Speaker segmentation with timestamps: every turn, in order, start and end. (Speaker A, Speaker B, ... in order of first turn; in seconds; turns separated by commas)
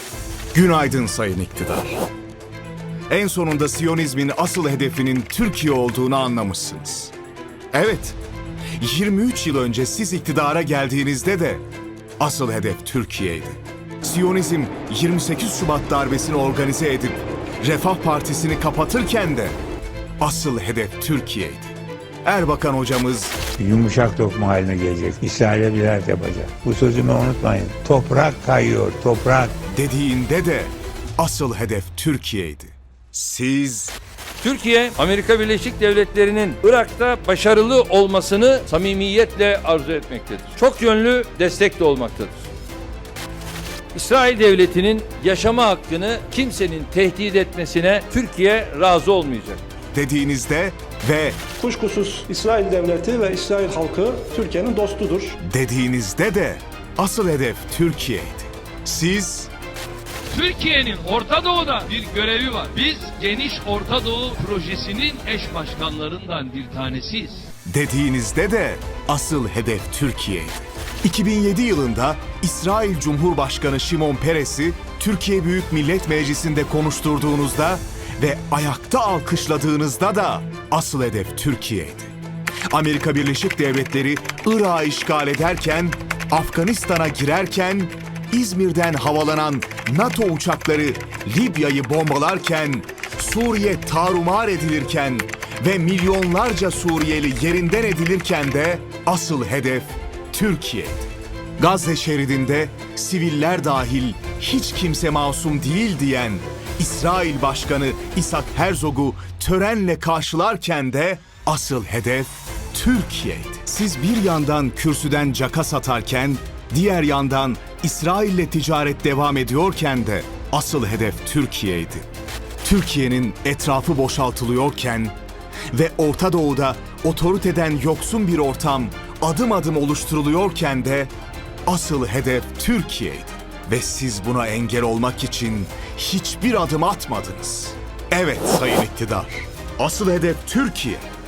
Speaker A: 0.5-2.0, Speaker A: 3.1-7.1, Speaker A: 7.7-8.2, Speaker A: 8.8-11.6, Speaker A: 12.2-19.6, Speaker A: 20.2-23.4, Speaker B: 23.6-29.5, Speaker A: 29.7-34.0, Speaker C: 34.4-42.5, Speaker C: 43.9-49.6, Speaker A: 49.9-51.5, Speaker D: 51.6-55.4, Speaker A: 55.4-59.5, Speaker E: 60.3-67.5, Speaker A: 67.7-82.2, Speaker A: 82.7-122.1, Speaker A: 122.6-125.2, Speaker A: 125.7-131.1, Speaker A: 131.7-141.1